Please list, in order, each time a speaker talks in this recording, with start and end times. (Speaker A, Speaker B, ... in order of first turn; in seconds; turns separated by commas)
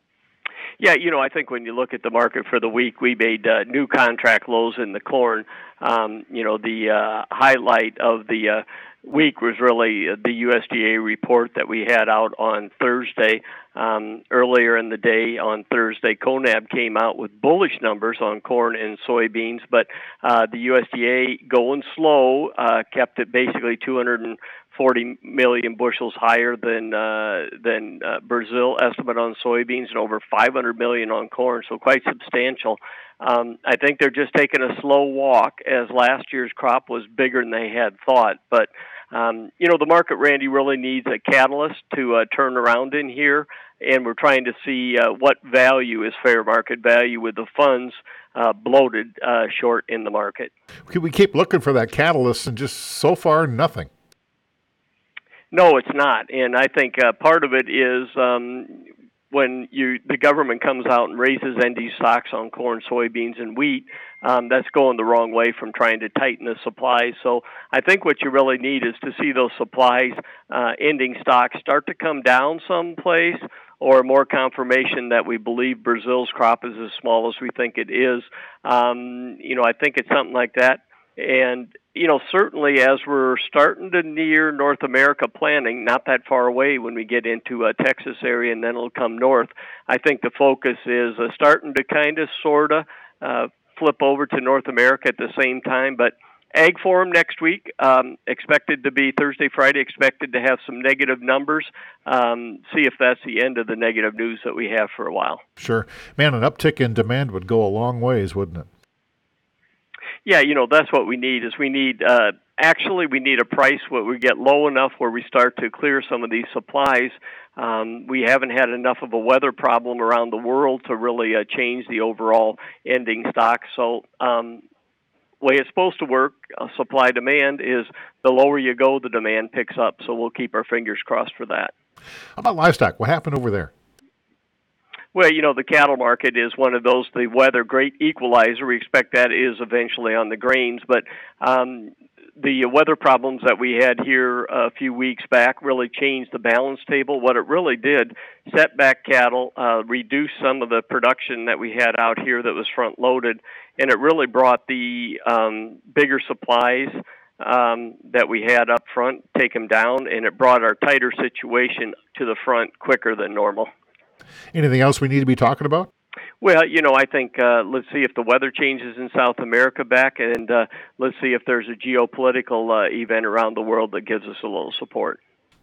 Speaker A: 0.8-50.5, Speaker B: 50.9-53.9, Speaker A: 55.5-105.4, Speaker B: 105.6-108.7, Speaker A: 110.2-124.6, Speaker A: 125.4-131.7, Speaker B: 132.4-133.7, Speaker A: 135.1-163.7, Speaker B: 164.5-165.9, Speaker A: 166.4-175.2